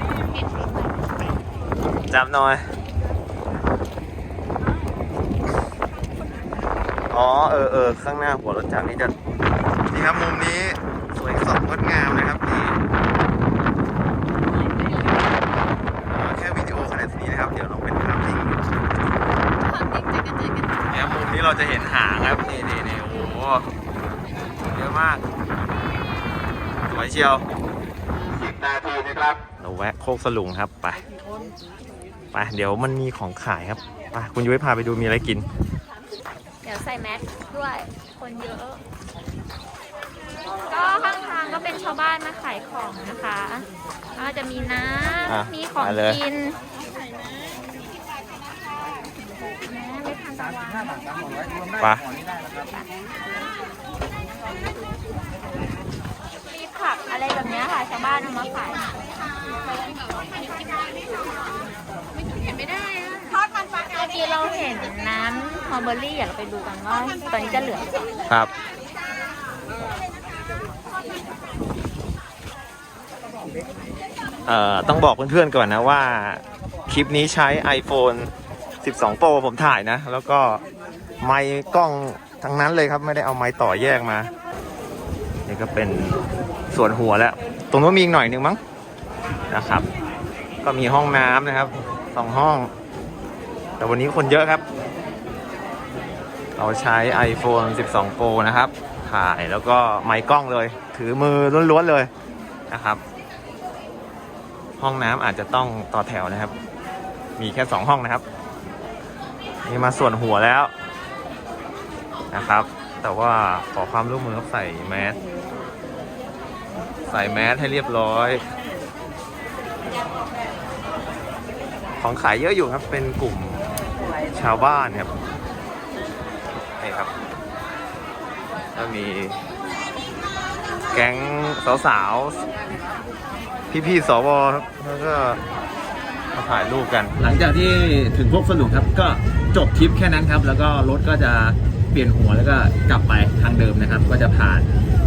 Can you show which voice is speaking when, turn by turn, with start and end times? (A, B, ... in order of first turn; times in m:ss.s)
0:02.1-0:02.7 A
0:07.1-0:09.1 A
0:09.9-0:12.8 A
0:14.6-0:15.2 B
0:16.1-0:18.6 A
0:19.7-0:20.8 B
0:20.9-0:23.7 A
0:24.7-0:25.2 A
0:26.8-0:27.5 A
0:29.4-0:31.0 A
0:32.3-0:35.4 A
0:36.6-0:38.8 B
0:40.7-0:46.6 B
0:45.3-0:46.2 A
0:49.0-0:53.8 B
0:56.5-0:59.4 B
1:03.1-1:08.2 B
1:14.5-1:18.3 A
1:18.8-1:20.6 A
1:21.2-1:24.3 A
1:25.5-1:26.2 A
1:26.7-1:28.6 A
1:29.5-1:29.9 A
1:30.6-1:32.7 A
1:33.8-1:34.6 A
1:36.6-1:42.1 A
1:42.7-1:43.0 A
1:44.8-1:46.5 A
1:47.4-1:48.2 A
1:49.6-1:50.7 A
1:52.3-1:55.2 A
1:57.1-1:58.4 A
2:02.0-2:03.7 A
2:04.3-2:05.1 A
2:06.8-2:07.1 A
2:08.8-2:09.4 A
2:10.9-2:12.4 A
2:13.7-2:15.4 A
2:16.3-2:24.7 A